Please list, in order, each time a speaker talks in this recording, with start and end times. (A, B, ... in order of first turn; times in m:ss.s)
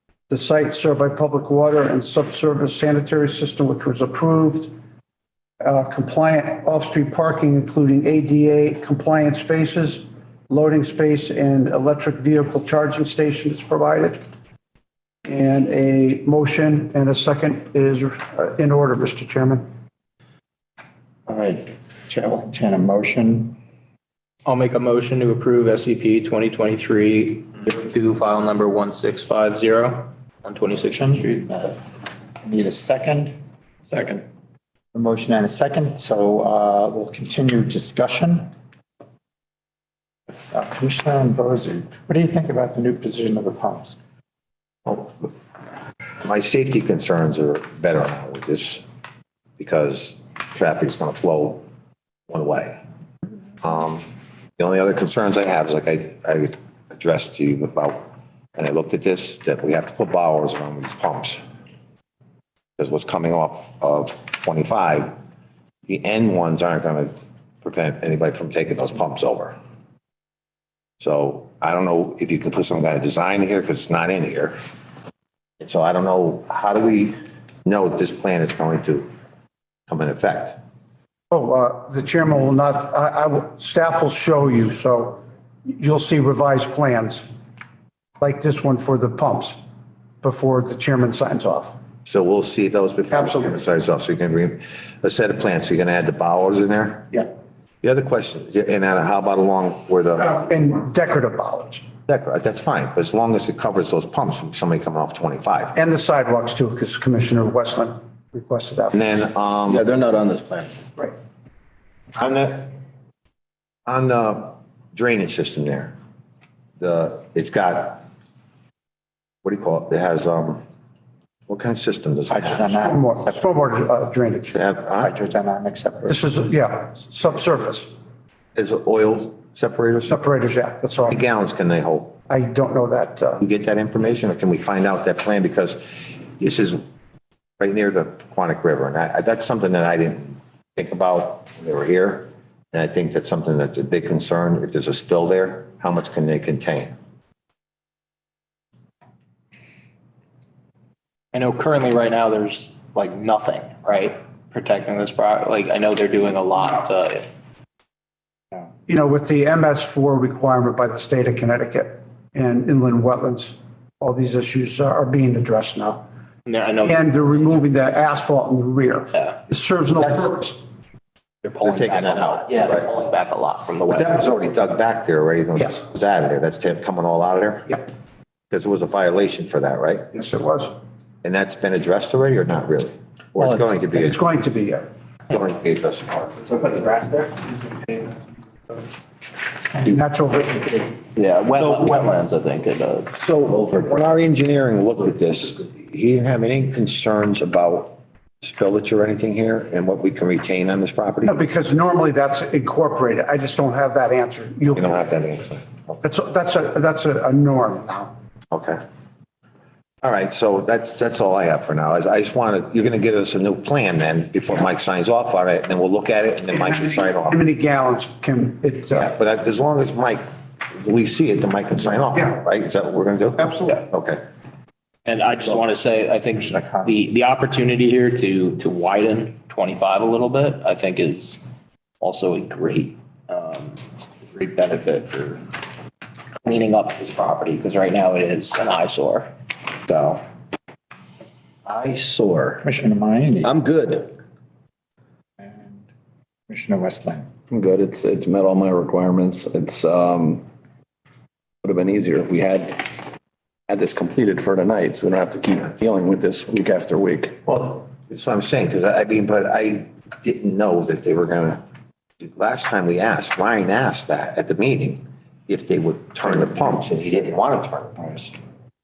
0:00.3-0:04.7 A
0:05.6-0:14.2 A
0:15.2-0:19.6 A
0:21.3-0:23.6 B
0:24.5-0:31.3 C
0:30.8-0:31.8 B
0:32.4-0:33.4 B
0:33.9-0:34.2 D
0:34.9-0:38.5 B
0:40.5-0:44.0 B
0:44.8-0:45.3 E
0:46.2-0:48.8 E
0:49.6-0:51.6 E
0:52.3-0:52.8 E
0:53.6-0:54.1 E
0:54.6-1:01.4 E
1:02.8-1:05.1 E
1:05.9-1:09.6 E
1:11.0-1:14.6 E
1:15.6-1:19.1 E
1:19.9-1:20.6 E
1:21.3-1:27.3 A
1:28.2-1:29.6 A
1:30.2-1:31.8 A
1:32.0-1:37.2 E
1:33.1-1:33.5 A
1:37.8-1:40.4 E
1:40.3-1:41.8 A
1:42.1-1:45.8 E
1:45.7-1:49.0 A
1:48.9-1:49.8 E
1:49.7-1:50.8 F
1:52.1-1:52.7 E
1:53.8-1:55.9 E
1:56.8-1:58.0 E
1:59.4-2:00.6 E
2:01.5-2:02.7 E
2:02.3-2:03.1 B
2:02.7-2:04.6 A
2:04.5-2:05.1 E
2:05.0-2:06.2 B
2:06.1-2:07.9 A
2:08.5-2:10.2 E
2:10.1-2:11.2 A
2:11.1-2:12.2 E
2:12.3-2:13.4 A
2:13.4-2:16.8 E
2:17.6-2:26.9 E
2:31.3-2:37.3 C
2:38.9-2:46.0 A
2:46.4-2:47.1 C
2:46.8-2:50.6 A
2:51.4-2:54.3 C
2:51.6-2:52.9 E
2:53.9-2:57.8 E
2:58.5-3:00.1 E
3:00.1-3:00.8 A
3:01.2-3:04.2 E
3:03.4-3:04.9 A
3:05.3-3:06.7 E
3:09.8-3:10.9 A
3:11.1-3:13.2 C
3:13.4-3:21.3 E
3:21.2-3:24.9 A
3:24.8-3:26.0 E
3:26.0-3:28.1 A
3:28.5-3:28.8 E
3:30.0-3:37.4 E
3:37.2-3:39.1 A
3:38.9-3:40.2 E
3:40.8-3:44.2 E
3:45.1-3:51.4 C
3:52.0-3:55.4 C
3:56.4-3:59.3 C
3:59.9-4:00.2 F
4:01.7-4:02.6 F
4:02.6-4:03.5 B
4:03.4-4:04.1 F
4:05.4-4:05.8 B
4:06.5-4:07.3 B
4:07.5-4:10.4 D
4:11.6-4:13.1 D
4:13.7-4:17.4 D
4:17.4-4:21.6 E
4:22.2-4:28.3 E